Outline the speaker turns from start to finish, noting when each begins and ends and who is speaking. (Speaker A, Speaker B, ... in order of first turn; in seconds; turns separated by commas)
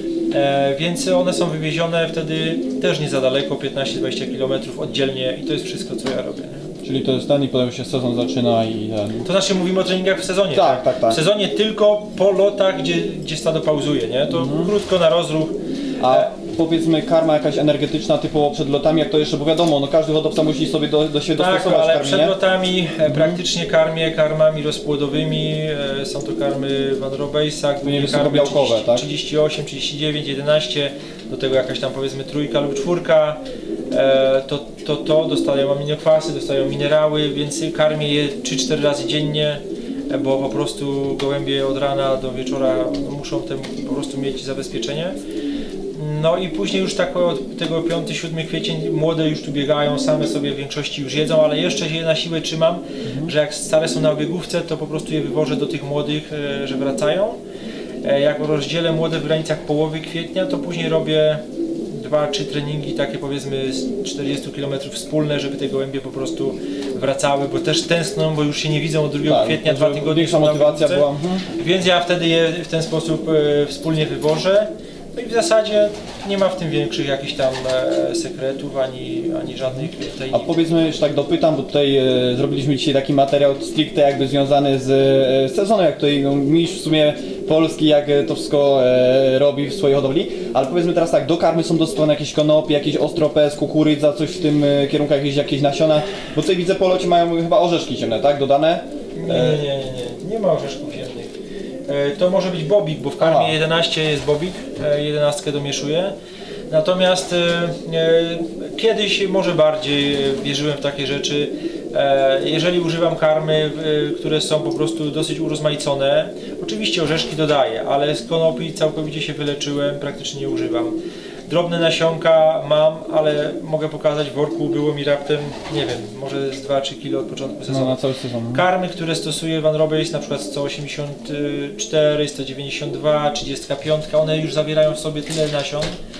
Speaker A: 0.3-6.7, Speaker B: 6.8-9.2, Speaker A: 9.2-15.6, Speaker B: 10.5-11.2, Speaker B: 14.3-14.7, Speaker B: 16.0-22.4, Speaker A: 16.1-16.3, Speaker A: 21.4-45.1, Speaker B: 23.1-23.4, Speaker B: 27.8-29.1, Speaker A: 45.9-57.4, Speaker B: 53.0-53.3, Speaker A: 58.0-80.6, Speaker B: 69.2-71.5, Speaker B: 79.7-99.6, Speaker A: 99.1-101.3, Speaker A: 101.9-106.1, Speaker B: 103.2-103.6, Speaker A: 106.7-121.0, Speaker A: 121.5-128.0, Speaker B: 127.7-128.7, Speaker A: 128.5-135.9